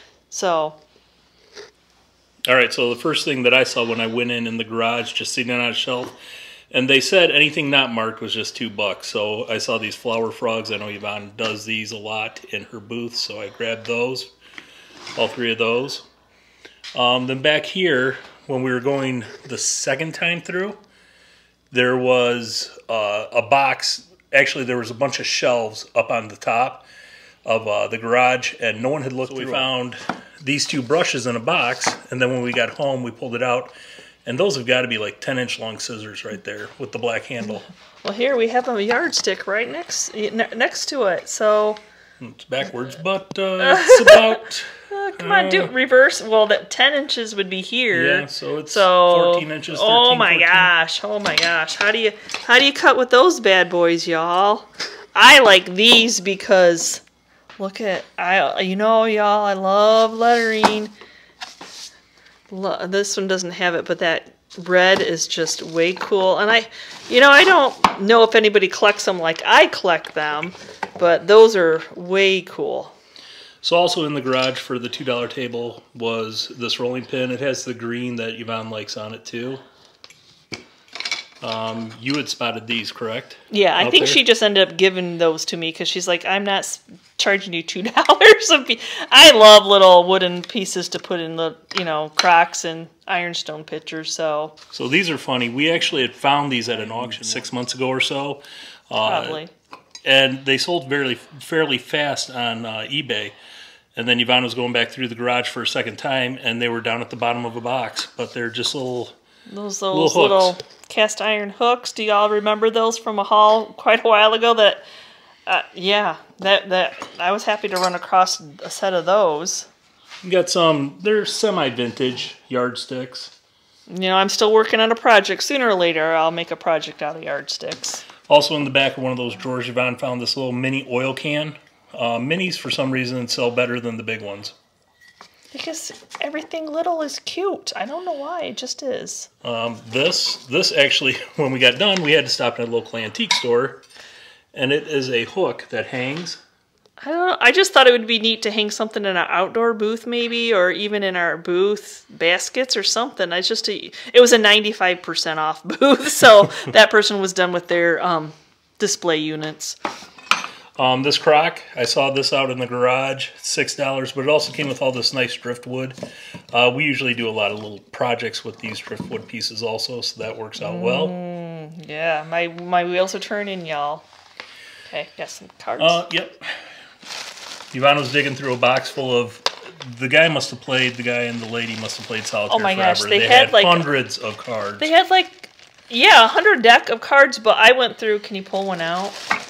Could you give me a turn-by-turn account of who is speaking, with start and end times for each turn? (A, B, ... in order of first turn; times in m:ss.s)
0:00.3-0:00.8 A
0:02.5-0:06.2 B
0:06.7-0:14.3 B
0:15.2-0:16.0 B
0:17.0-0:20.8 B
0:21.7-0:26.9 B
0:27.4-0:33.7 B
0:29.3-0:29.7 A
0:34.2-0:37.6 B
0:38.0-0:41.8 A
0:42.2-0:45.7 B
0:43.6-0:57.0 A
0:47.9-0:50.7 B
0:57.6-1:00.9 A
1:02.5-1:12.9 A
1:13.6-1:19.6 B
1:21.4-1:24.2 B
1:23.5-1:34.6 A
1:34.7-1:39.4 B
1:39.0-1:39.5 A
1:40.0-1:43.4 B
1:44.0-1:49.1 B
1:49.5-1:54.8 A
1:49.9-1:50.6 B
1:55.5-1:59.7 A
2:00.2-2:03.3 B
2:03.9-2:08.0 A
2:08.3-2:14.6 B
2:15.5-2:19.3 A
2:19.4-2:23.8 B
2:24.5-2:26.4 B
2:27.0-2:39.8 A
2:40.8-2:46.0 B
2:46.5-2:51.2 B
2:50.6-2:54.0 A
2:54.9-2:56.0 A
2:55.8-2:56.6 B
2:57.7-3:04.9 B
3:02.5-3:03.9 A
3:04.8-3:09.2 A